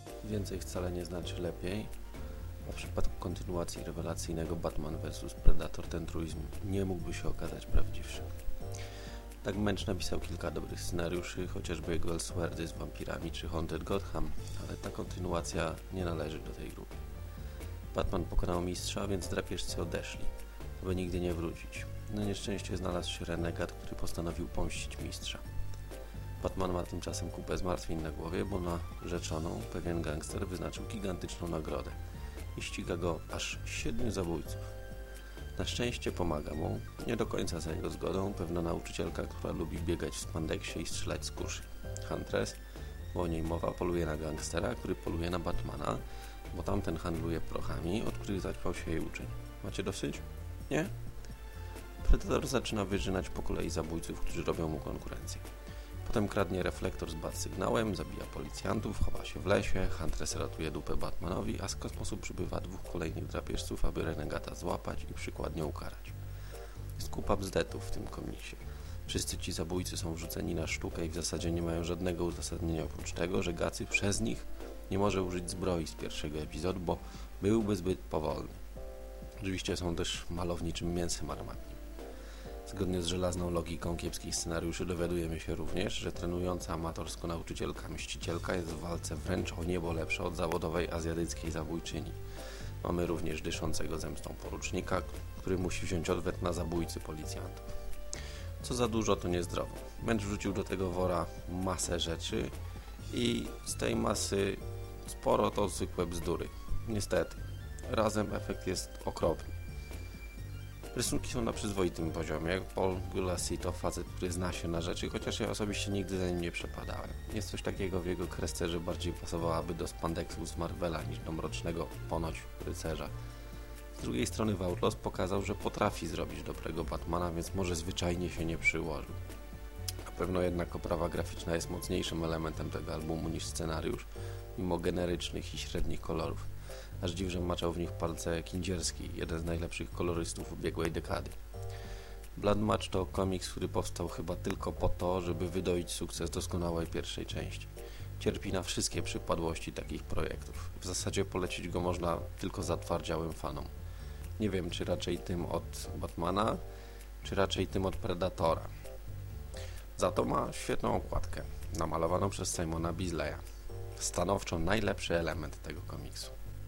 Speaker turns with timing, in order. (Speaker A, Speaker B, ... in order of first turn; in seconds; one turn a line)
Speaker A: 0.2-1.9
Speaker A: 2.6-8.3
Speaker A: 9.4-16.9
Speaker A: 17.9-25.5
Speaker A: 26.4-32.0
Speaker A: 32.5-34.7
Speaker A: 35.5-42.6
Speaker A: 43.1-46.0
Speaker A: 46.5-50.9
Speaker A: 52.0-55.5
Speaker A: 56.0-66.2
Speaker A: 67.0-78.6
Speaker A: 79.4-81.8
Speaker A: 82.7-92.2
Speaker A: 92.8-97.7
Speaker A: 98.6-102.5
Speaker A: 103.1-109.6
Speaker A: 110.9-123.1
Speaker A: 124.0-129.2
Speaker A: 130.1-136.5
Speaker A: 137.0-141.4
Speaker A: 142.4-153.7
Speaker A: 154.4-156.6
Speaker A: 157.2-158.7
Speaker A: 160.0-163.4
Speaker A: 164.0-166.3